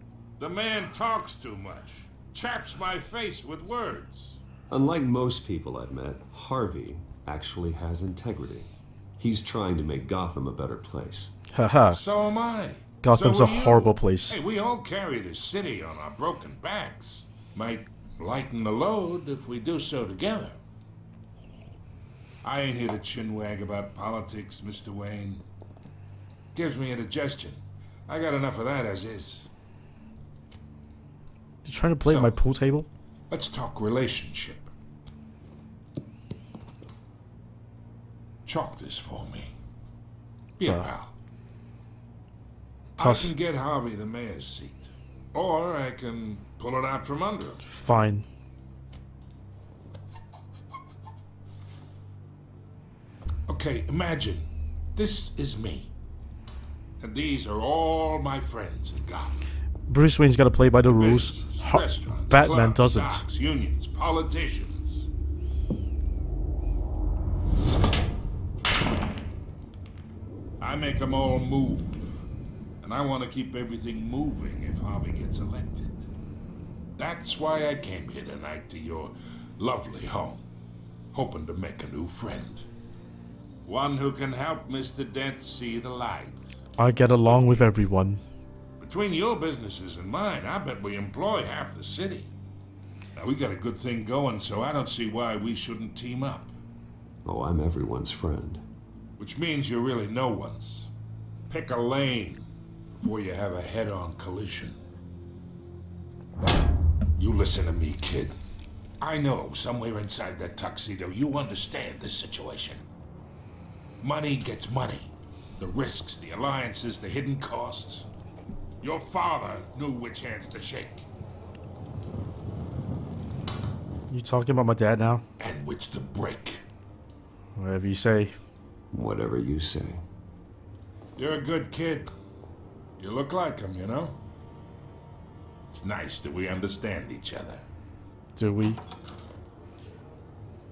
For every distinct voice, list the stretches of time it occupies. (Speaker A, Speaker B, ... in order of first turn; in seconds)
Speaker A: 0.4-4.4, 11.9-20.6, 22.4-25.4, 26.5-29.5, 32.0-32.4, 33.3-34.7, 38.5-39.5, 40.6-41.1, 43.0-47.6, 53.5-55.9, 57.0-59.5, 60.9-65.1, 70.6-72.2, 72.8-76.1, 77.0-80.5, 81.1-82.7, 83.7-86.6, 87.2-87.9, 88.8-92.3, 93.2-96.6, 99.2-100.9, 101.5-104.8, 107.2-108.4, 109.0-112.8, 114.0-118.1, 118.8-121.1, 125.4-126.6, 131.2-132.1, 133.0-134.2, 135.7-137.7
Speaker B: 4.7-11.3, 97.2-98.6, 128.9-130.0
Speaker C: 11.5-12.0, 13.0-14.4, 31.6-32.9, 43.0-43.3, 47.7-48.3, 59.9-63.3, 86.8-88.2, 124.1-125.2, 127.6-128.3, 138.4-138.8